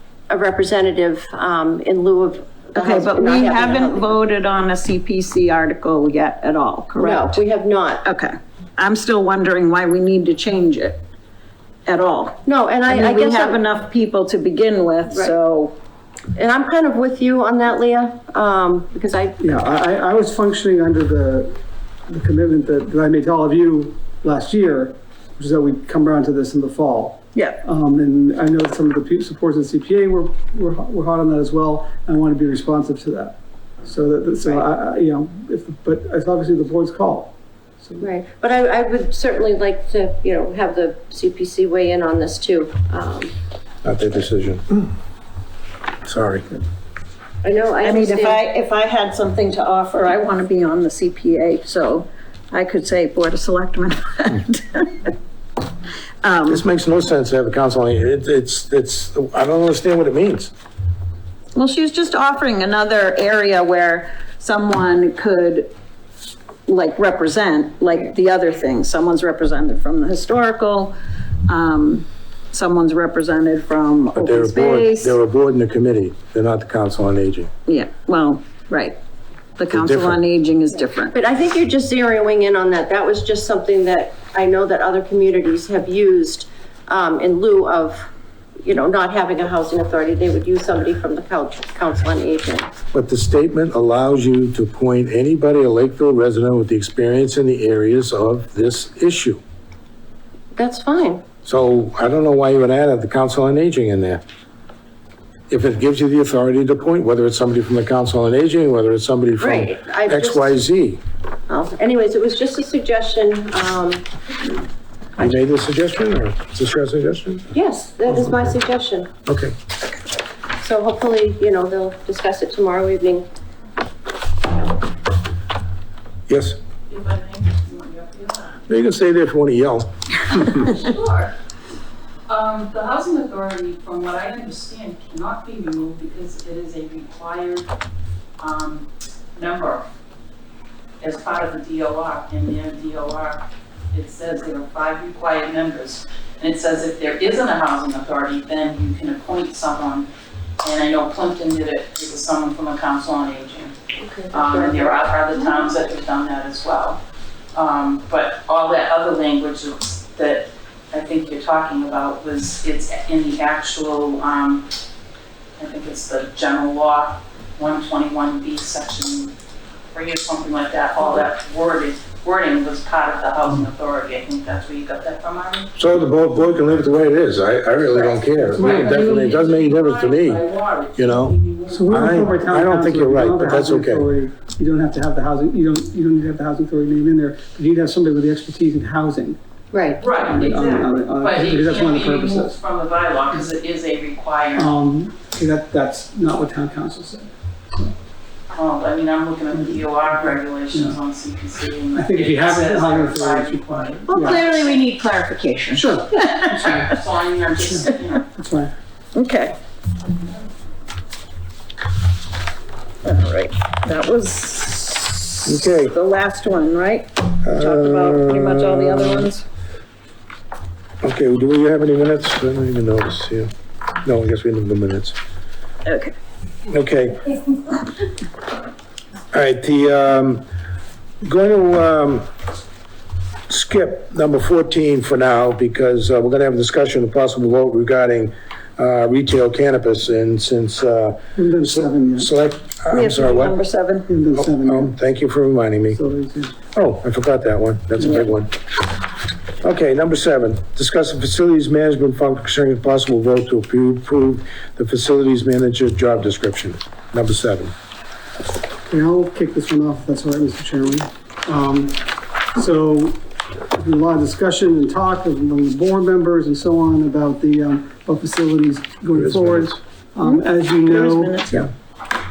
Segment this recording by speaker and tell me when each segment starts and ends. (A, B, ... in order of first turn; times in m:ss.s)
0:00.3-0:04.2 A
0:02.8-0:07.4 B
0:07.0-0:08.0 A
0:08.0-0:11.0 B
0:11.9-0:15.7 B
0:12.4-0:13.6 A
0:16.4-0:19.4 A
0:19.4-0:21.5 C
0:22.1-0:38.1 C
0:27.3-0:27.6 B
0:38.0-0:43.3 A
0:43.8-0:44.7 D
0:46.0-0:46.5 D
0:47.4-0:48.4 A
0:47.8-0:55.1 B
0:56.2-0:56.6 B
0:56.5-1:00.5 D
1:01.6-1:05.7 B
1:06.7-1:10.9 B
1:11.5-1:15.2 B
1:14.2-1:17.5 D
1:17.7-1:19.0 B
1:19.6-1:21.2 B
1:19.7-1:20.2 D
1:21.1-1:28.1 A
1:28.6-1:32.8 A
1:32.9-1:39.4 D
1:40.6-1:41.2 A
1:41.4-1:44.2 D
1:45.5-1:51.0 D
1:49.4-1:50.6 A
1:51.5-1:54.0 A
1:55.2-1:57.5 D
1:57.5-1:59.1 A
1:59.3-1:59.5 D
2:00.6-2:03.3 A
2:06.3-2:06.6 D
2:06.9-2:08.6 E
2:08.7-2:10.6 D
2:10.6-2:11.3 E
2:12.3-2:17.7 E
2:18.4-2:19.8 E
2:21.0-2:30.1 E
2:30.6-2:33.8 E
2:34.0-2:35.6 A
2:34.3-2:37.0 E
2:37.5-2:44.7 E
2:45.6-2:49.3 E
2:49.9-2:55.7 E
2:55.8-3:00.4 D
2:57.9-3:02.3 E
2:58.4-2:59.3 C
3:01.0-3:01.4 D
3:01.7-3:09.4 C
3:01.9-3:04.1 D
3:09.7-3:10.0 A
3:10.0-3:14.7 E
3:10.2-3:12.6 C
3:14.6-3:17.9 C
3:18.5-3:24.9 E
3:19.5-3:21.0 C
3:21.9-3:24.5 C
3:24.1-3:27.0 B
3:25.7-3:26.1 C
3:26.2-3:28.2 E
3:27.6-3:28.7 C
3:29.1-3:29.6 B
3:33.0-3:39.4 B
3:35.5-3:35.9 D
3:37.4-3:39.3 D
3:41.0-3:43.5 D
3:44.0-3:45.2 D
3:45.9-3:46.1 B
3:46.7-3:47.3 D
3:49.3-3:50.4 D
3:51.2-3:52.3 D
3:53.5-4:03.6 D
4:01.4-4:02.3 C
4:02.9-4:04.1 B
4:04.1-4:05.0 C
4:04.4-4:06.0 D
4:05.9-4:06.6 C
4:06.7-4:08.5 D
4:09.6-4:17.7 D
4:18.9-4:23.2 C
4:23.7-4:31.4 C
4:29.2-4:29.8 D
4:30.2-4:31.7 B